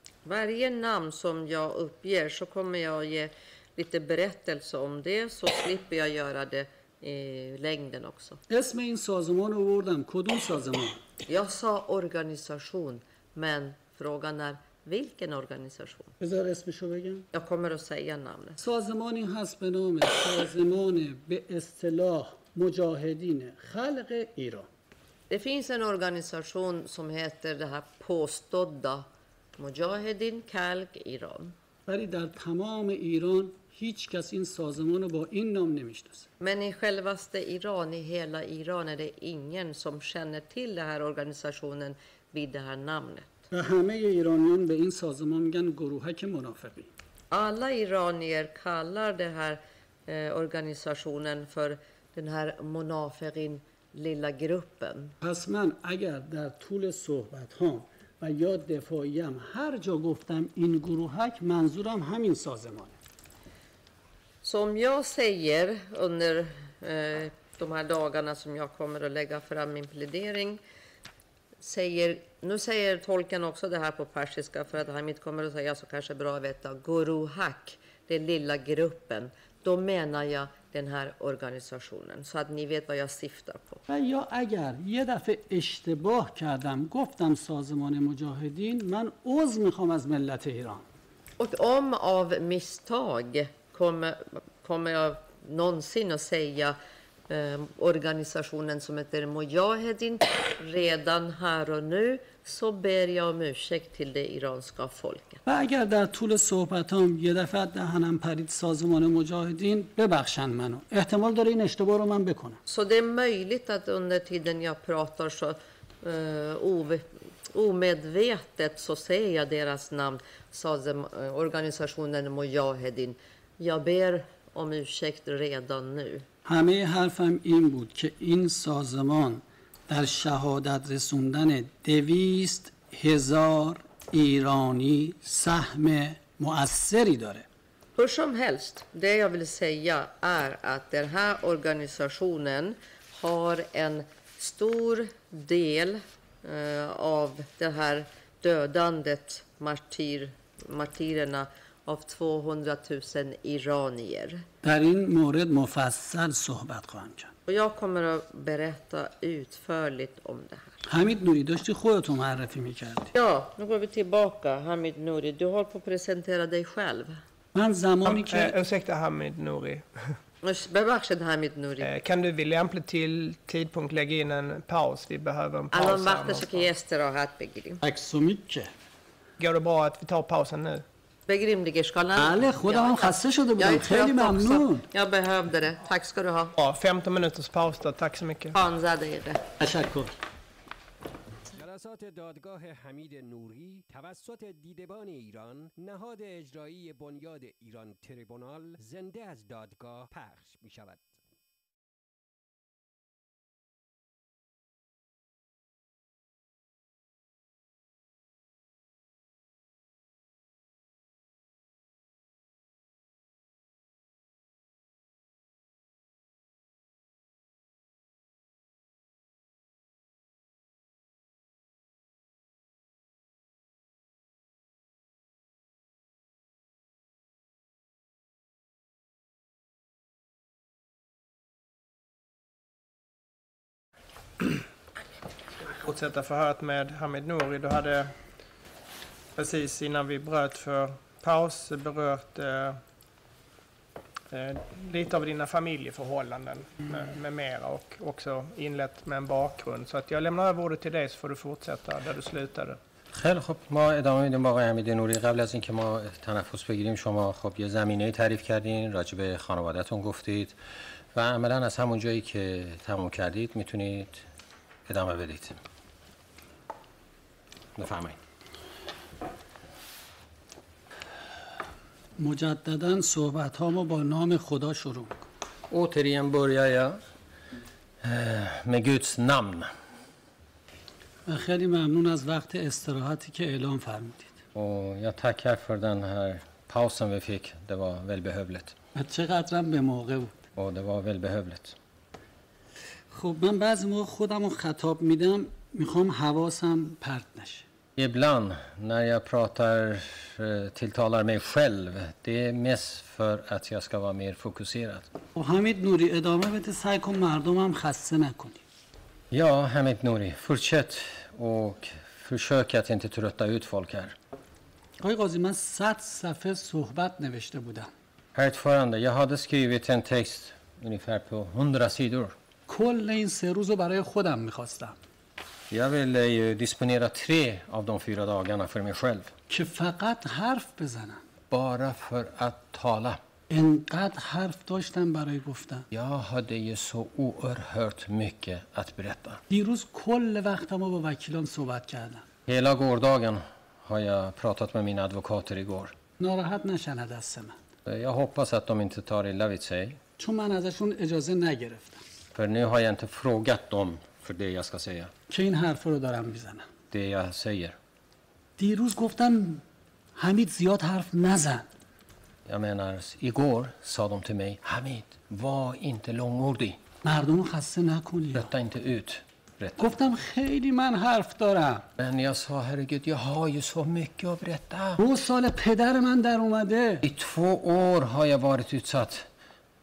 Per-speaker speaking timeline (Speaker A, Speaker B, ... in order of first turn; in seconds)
Speaker A: 0.2-8.4, 11.3-16.1, 17.3-18.6, 25.3-29.1, 29.6-31.6, 36.4-43.5, 47.3-55.1, 64.4-70.6, 71.6-83.8, 91.4-96.8, 97.3-105.4, 112.7-126.3, 138.0-154.4, 157.5-160.8, 163.1-167.2, 170.4-171.9, 175.7-177.8, 181.3-186.6, 188.6-189.4
Speaker B: 8.5-11.0, 16.2-17.3, 18.6-24.7, 31.9-36.3, 43.5-46.9, 55.2-63.0, 83.9-90.8, 105.5-112.6, 126.5-137.5, 154.6-157.3, 160.9-163.1, 167.6-168.6, 177.8-178.7, 182.2-184.9, 189.6-190.1, 272.2-275.2, 281.3-284.3, 288.9-290.3, 293.1-297.6, 305.4-308.6, 315.0-317.9, 322.7-325.0, 329.5-331.2, 333.5-335.9, 339.5-342.2, 346.2-347.6, 350.2-352.0, 355.3-356.7, 358.6-359.6, 360.2-361.7, 367.0-368.5, 369.8-371.9, 375.0-377.1
Speaker C: 168.1-169.9, 171.8-176.7, 179.4-180.8, 186.6-188.6, 235.8-238.1, 239.4-242.8, 244.3-252.8
Speaker D: 191.5-201.2
Speaker E: 253.1-260.6, 261.1-264.2, 264.9-265.6, 267.8-268.2, 275.7-277.0, 278.0-279.7, 284.6-288.8, 290.6-291.8, 298.0-305.1, 309.3-314.2, 318.4-322.4, 325.7-329.3, 331.5-333.2, 335.9-339.4, 342.5-345.9, 347.9-350.0, 352.4-355.1, 356.9-357.8, 362.5-366.8, 368.4-369.8, 372.0-375.0, 377.0-379.3